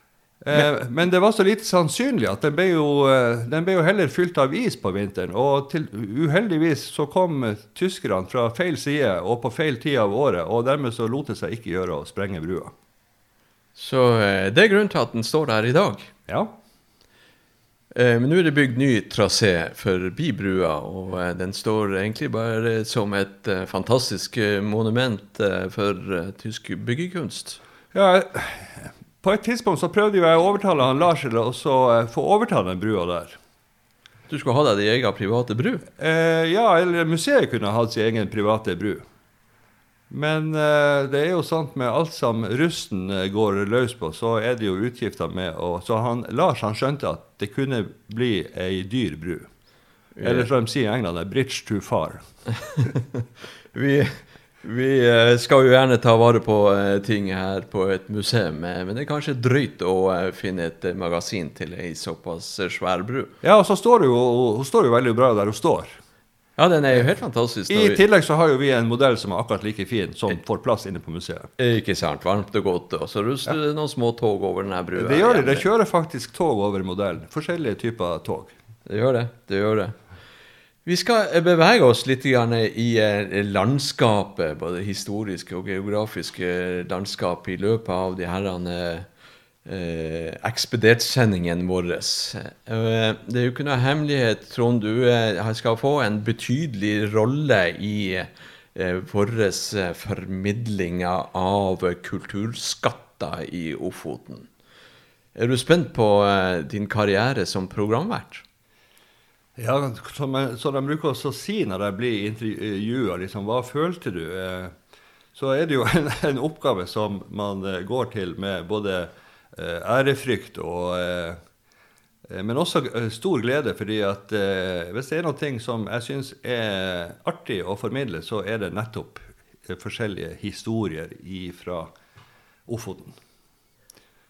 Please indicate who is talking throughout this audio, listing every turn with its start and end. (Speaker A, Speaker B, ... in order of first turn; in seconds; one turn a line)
Speaker A: 0.4-12.7
Speaker B: 13.8-16.1
Speaker B: 17.9-27.6
Speaker A: 27.9-33.4
Speaker B: 34.3-35.9
Speaker A: 36.0-39.0
Speaker A: 40.1-49.5
Speaker B: 50.2-50.5
Speaker A: 50.2-52.2
Speaker B: 52.8-63.3
Speaker A: 63.4-66.0
Speaker B: 66.6-68.0
Speaker A: 67.7-71.5
Speaker B: 71.6-75.7
Speaker A: 75.0-78.5
Speaker B: 78.8-79.9
Speaker B: 80.8-89.1
Speaker B: 89.6-104.5
Speaker B: 105.3-108.4
Speaker A: 109.5-114.7
Speaker A: 115.3-121.4
Speaker A: 122.3-131.9
Speaker A: 132.7-133.2